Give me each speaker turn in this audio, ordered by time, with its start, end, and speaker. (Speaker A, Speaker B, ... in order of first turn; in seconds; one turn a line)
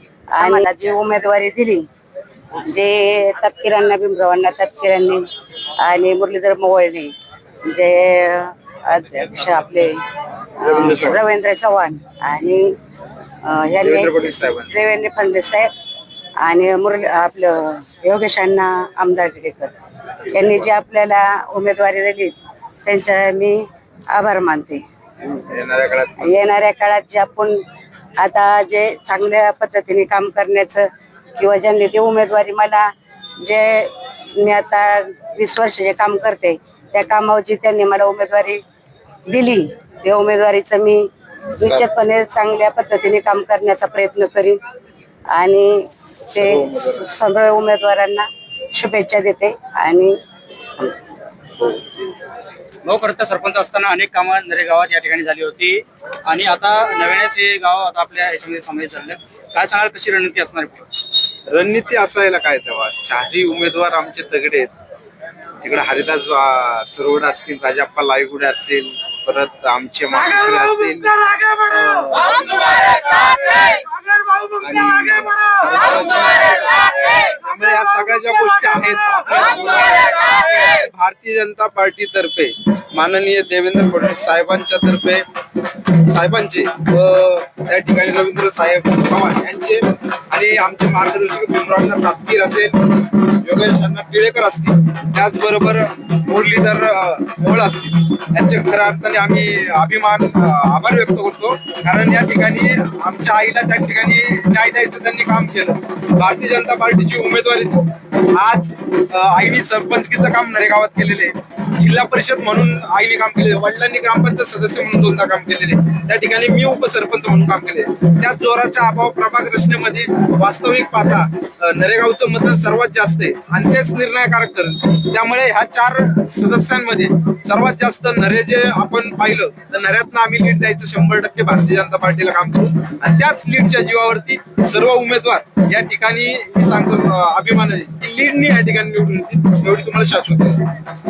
Speaker A: 0.3-1.8
Speaker A: 2.6-5.2
Speaker A: 5.8-7.1
Speaker A: 7.7-10.0
Speaker A: 10.6-12.7
Speaker B: 10.6-11.2
Speaker A: 13.4-15.7
Speaker B: 13.8-14.7
Speaker A: 16.4-19.8
Speaker A: 20.3-22.4
Speaker A: 22.9-24.8
Speaker B: 25.5-26.4
Speaker A: 26.2-27.6
Speaker A: 28.2-32.9
Speaker A: 33.4-38.6
Speaker A: 39.3-44.6
Speaker A: 45.3-50.2
Speaker B: 46.3-47.1
Speaker C: 52.9-60.9
Speaker B: 61.5-64.7
Speaker B: 65.6-73.7
Speaker B: 74.6-85.2
Speaker B: 86.1-140.8